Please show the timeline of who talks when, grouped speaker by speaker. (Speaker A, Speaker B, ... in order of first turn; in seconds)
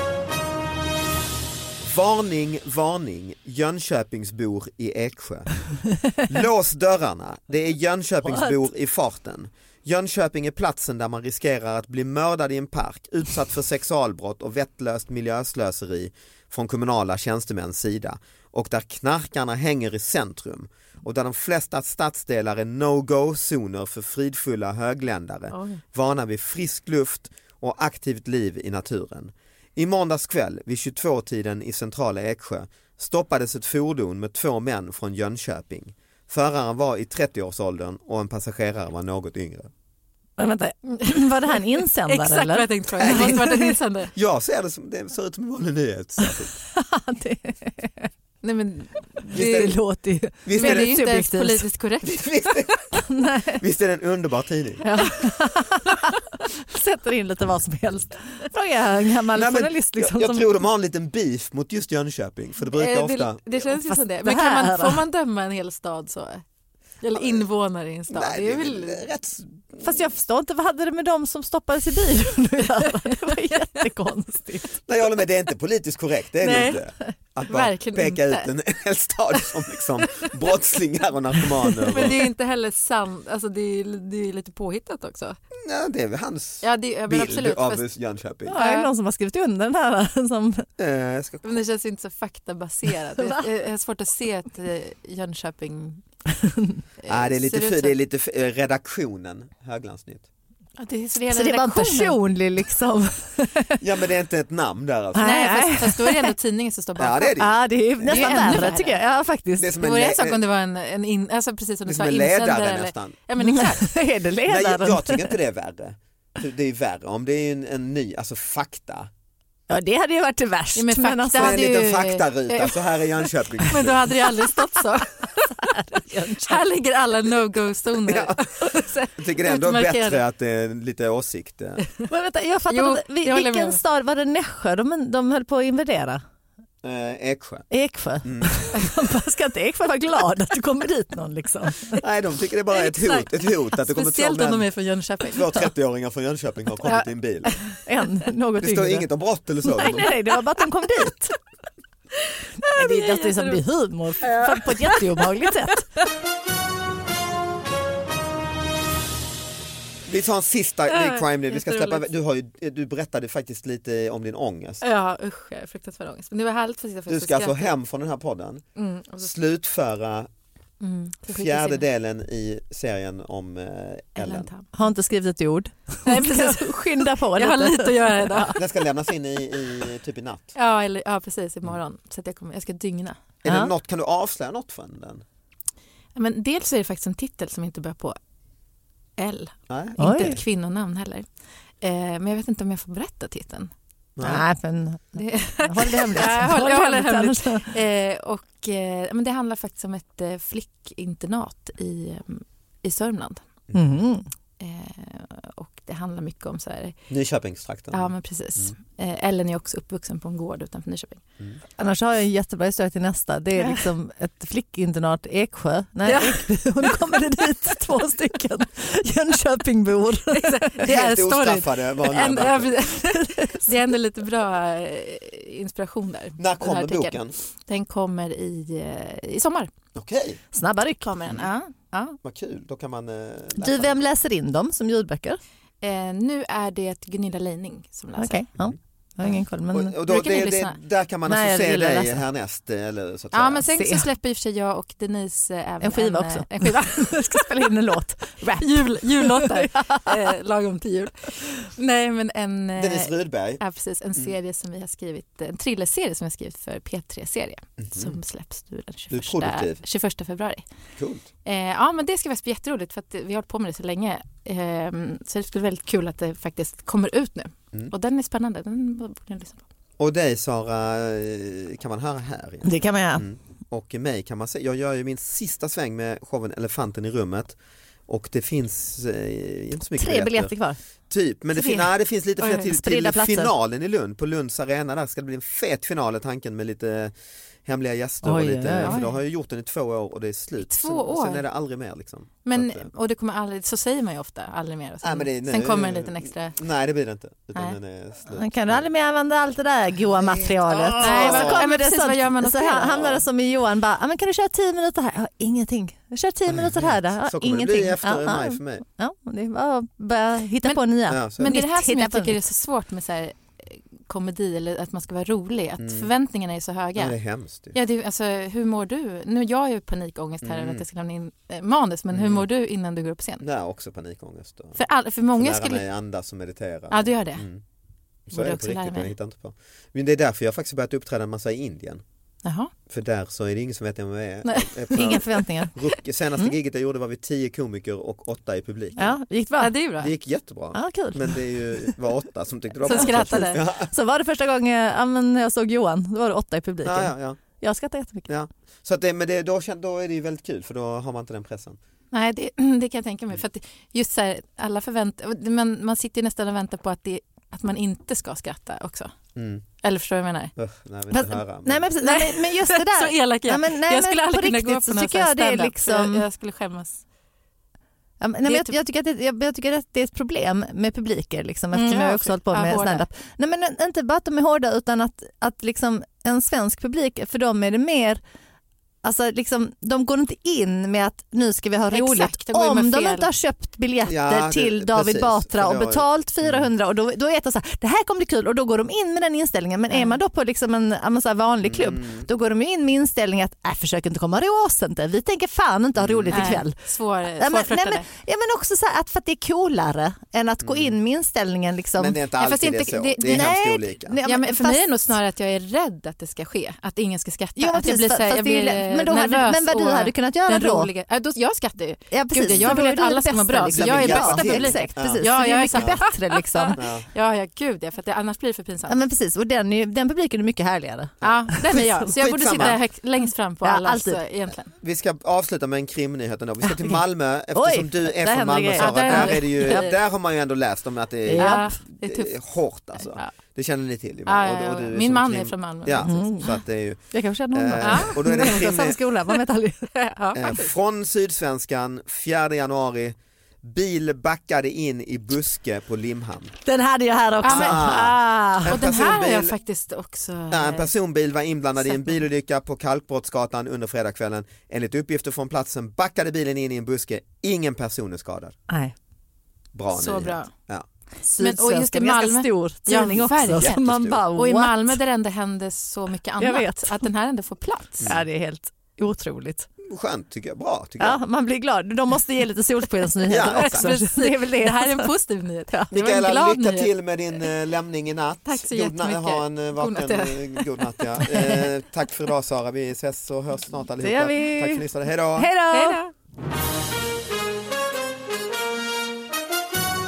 Speaker A: 1.8-5.5, 6.3-39.7, 43.0-43.4, 44.1-46.5, 49.3-49.7, 50.4-50.9, 52.0-53.0, 53.6-54.8, 59.3-63.6, 68.1-69.9, 74.9-82.2, 85.6-88.6, 90.8-91.4, 97.1-100.3, 103.8-105.3, 107.0-108.7, 109.6-110.4, 111.9-113.2, 114.5-119.1, 121.4-124.1, 128.1-128.4, 129.2-131.8, 136.8-137.7, 138.2-138.7, 142.0-144.7, 145.3-147.5, 148.6-150.1, 160.1-164.8, 167.1-168.6, 169.2-170.3, 171.3-174.5, 178.6-180.5, 183.4-185.2, 189.7-190.4, 194.2-194.4, 207.1-208.7, 220.8-222.8, 226.4-227.3, 229.9-230.4, 232.2-234.0, 239.7-243.6, 252.8-253.6, 257.8-258.1, 259.1-259.8, 261.0-261.2, 270.0-277.6, 278.1-280.5, 281.1-287.1, 287.6-292.9, 295.0-298.9, 300.1-301.6, 306.5-308.8, 311.1-311.6, 315.8-316.1, 316.9-317.7, 320.4-320.8, 322.1-322.5, 323.4-324.8, 325.3-327.6, 328.3-332.0, 332.9-339.1, 340.0-343.9, 346.8-347.6, 348.3-351.8, 359.3-359.6, 360.6-361.9, 384.0-386.7, 391.6-392.3, 395.9-396.6, 400.6-400.9, 402.0-404.2, 412.4-412.8, 413.7-416.0, 416.8-417.1, 422.0-422.8, 424.8-439.0, 440.3-446.5, 447.4-449.6, 450.5-458.6, 459.7-460.9, 463.6-464.2, 469.8-471.2, 473.3-473.9, 475.9-485.5
Speaker B: 25.5-25.8, 42.1-44.1, 48.4-49.8, 50.5-52.7, 54.8-55.3, 62.7-66.4, 67.0-69.0, 76.4-76.8, 77.5-78.5, 81.8-85.4, 86.6-87.9, 88.5-88.9, 91.4-96.0, 97.0-98.0, 100.8-102.2, 105.2-107.4, 108.0-109.0, 109.8-113.9, 120.8-122.8, 123.6-130.2, 132.7-133.8, 142.7-145.7, 146.8-147.8, 152.6-153.6, 154.2-155.5, 160.9-162.1, 164.8-167.7, 168.8-169.2, 170.8-171.8, 174.2-174.7, 176.0-178.6, 180.5-183.2, 186.2-188.2, 189.2-191.3, 191.8-193.7, 195.2-203.4, 204.6-207.0, 207.9-211.2, 213.6-213.8, 216.0-217.1, 220.3-227.2, 227.7-229.7, 231.0-232.2, 235.8-238.5, 240.0-240.8, 243.3-247.7, 248.6-260.6, 261.4-269.6, 288.8-289.2, 290.6-291.4, 292.4-296.6, 301.0-303.2, 311.3-317.1, 317.7-323.4, 324.7-325.8, 326.9-327.4, 328.3-329.1, 332.4-332.7, 334.4-334.8, 339.6-340.1, 342.8-343.6, 352.1-359.1, 359.8-360.5, 362.0-367.0, 368.4-368.7, 371.7-373.1, 381.9-383.3, 389.9-390.2, 396.3-398.1, 402.4-403.5, 404.2-419.0, 421.2-424.7, 428.7-429.9, 431.4-432.4, 433.0-433.3, 434.2-436.3, 437.8-438.7, 439.9-440.7, 447.4-447.9, 448.6-450.9, 459.9-460.5, 461.4-468.1, 473.4-476.9, 478.4-481.6, 485.7-486.1
Speaker C: 40.4-43.8, 46.2-48.1, 49.3-51.6, 53.0-53.6, 55.0-60.5, 63.9-65.0, 69.8-74.7, 88.5-90.7, 96.4-96.8, 101.3-103.8, 105.1-106.3, 107.4-109.7, 113.4-115.3, 119.7-121.6, 125.6-126.6, 132.1-136.2, 137.7-142.0, 147.8-149.1, 149.6-151.4, 152.7-155.9, 174.7-178.5, 183.4-183.7, 190.0-190.4, 194.2-197.7, 203.7-204.3, 211.8-220.8, 223.0-223.7, 230.5-231.4, 233.6-235.4, 238.2-239.9, 241.3-242.2, 243.8-244.1, 245.8-250.2, 272.6-273.2, 280.0-280.8, 281.5-281.9, 282.6-283.5, 288.2-289.0, 298.3-312.4, 334.9-336.5, 339.0-339.7, 340.7-341.9, 342.9-348.3, 361.1-366.2, 368.2-378.2, 379.0-396.8, 397.3-402.2, 403.2-405.0, 407.6-410.9, 412.1-416.8, 418.9-421.9, 423.6-424.2, 426.7-427.0, 427.5-429.9, 431.3-431.6, 436.0-439.9, 446.6-448.8, 458.7-458.9, 461.2-465.0, 466.4-467.1, 468.0-469.7, 471.0-475.1, 484.0-486.0